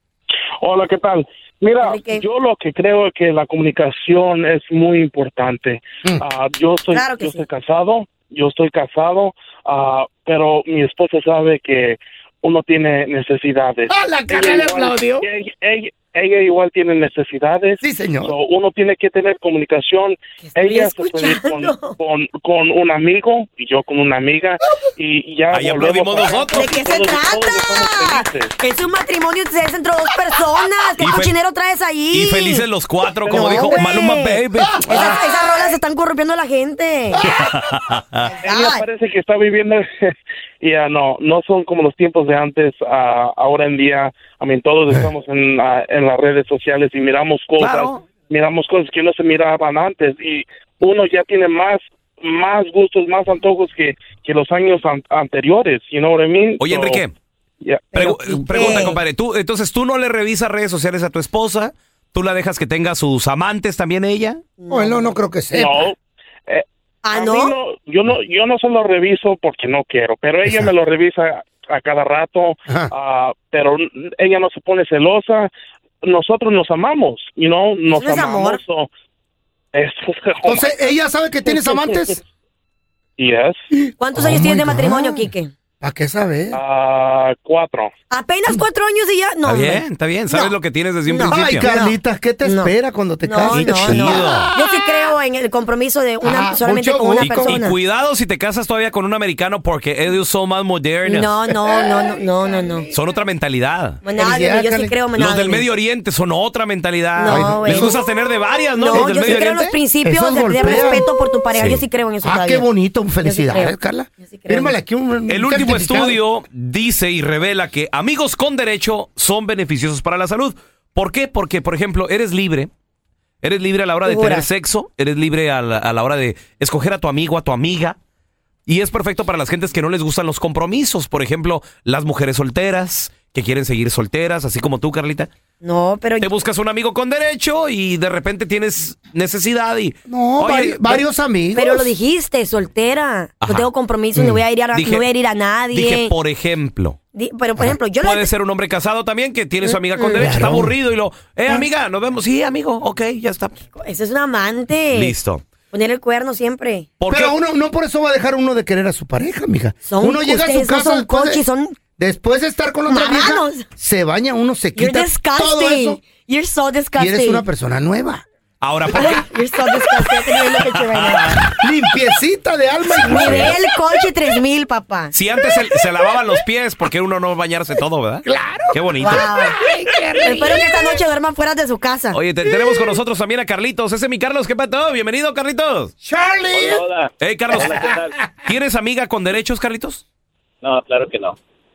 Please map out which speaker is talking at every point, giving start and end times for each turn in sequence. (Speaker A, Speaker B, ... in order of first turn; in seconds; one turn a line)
Speaker A: 0.6-28.5
Speaker B: 1.8-2.2
Speaker B: 6.9-7.5
Speaker C: 13.9-15.3
Speaker C: 17.8-18.3
Speaker B: 20.4-21.9
Speaker D: 25.5-26.7
Speaker B: 26.5-32.6
Speaker D: 31.0-31.4
Speaker D: 32.1-35.2
Speaker B: 33.3-37.2
Speaker A: 33.3-33.9
Speaker D: 37.2-38.2
Speaker B: 38.2-38.9
Speaker A: 38.4-57.0
Speaker D: 47.6-48.0
Speaker D: 56.6-57.1
Speaker A: 57.6-57.9
Speaker B: 57.9-59.0
Speaker D: 57.9-64.4
Speaker B: 64.6-65.2
Speaker C: 64.7-65.9
Speaker A: 65.5-66.0
Speaker A: 66.5-75.5
Speaker B: 67.0-67.5
Speaker A: 76.0-78.9
Speaker B: 77.9-78.6
Speaker A: 79.7-80.9
Speaker C: 80.5-82.2
Speaker A: 83.2-83.6
Speaker C: 83.7-85.3
Speaker B: 84.0-85.5
Speaker C: 85.8-86.6
Speaker A: 86.5-87.9
Speaker B: 88.1-90.5
Speaker D: 89.4-91.7
Speaker B: 91.1-97.8
Speaker C: 91.2-94.6
Speaker D: 93.5-94.5
Speaker C: 96.2-97.6
Speaker D: 97.2-101.3
Speaker B: 101.0-102.9
Speaker C: 101.6-102.9
Speaker D: 102.9-104.0
Speaker B: 104.0-105.7
Speaker C: 104.1-105.0
Speaker D: 105.1-109.8
Speaker B: 107.1-108.0
Speaker C: 107.2-108.0
Speaker B: 108.8-114.8
Speaker C: 108.9-109.3
Speaker C: 110.0-116.2
Speaker D: 111.5-111.8
Speaker D: 115.3-122.7
Speaker D: 123.4-128.0
Speaker B: 124.0-124.5
Speaker D: 128.7-135.3
Speaker B: 135.6-136.3
Speaker D: 136.2-141.1
Speaker C: 140.1-141.9
Speaker B: 141.5-146.1
Speaker D: 143.4-143.7
Speaker C: 144.1-144.4
Speaker D: 144.7-145.1
Speaker D: 145.7-147.0
Speaker B: 147.1-148.3
Speaker D: 147.9-153.6
Speaker B: 149.6-150.3
Speaker C: 150.1-150.8
Speaker B: 153.7-155.2
Speaker D: 154.9-155.4
Speaker B: 155.7-156.9
Speaker D: 157.0-157.3
Speaker C: 157.1-161.4
Speaker B: 159.9-161.7
Speaker C: 162.0-166.0
Speaker B: 162.8-163.7
Speaker B: 164.7-167.4
Speaker C: 167.0-168.2
Speaker D: 168.6-169.2
Speaker B: 168.9-171.3
Speaker D: 170.6-171.5
Speaker C: 171.6-173.6
Speaker D: 173.0-173.5
Speaker B: 173.1-175.1
Speaker D: 175.1-179.3
Speaker C: 178.2-180.9
Speaker B: 179.0-179.6
Speaker B: 180.2-182.2
Speaker D: 182.1-185.9
Speaker C: 182.4-183.0
Speaker C: 186.0-186.8
Speaker E: 186.5-188.2
Speaker D: 187.2-187.7
Speaker C: 187.6-188.4
Speaker D: 188.4-190.0
Speaker E: 190.6-191.4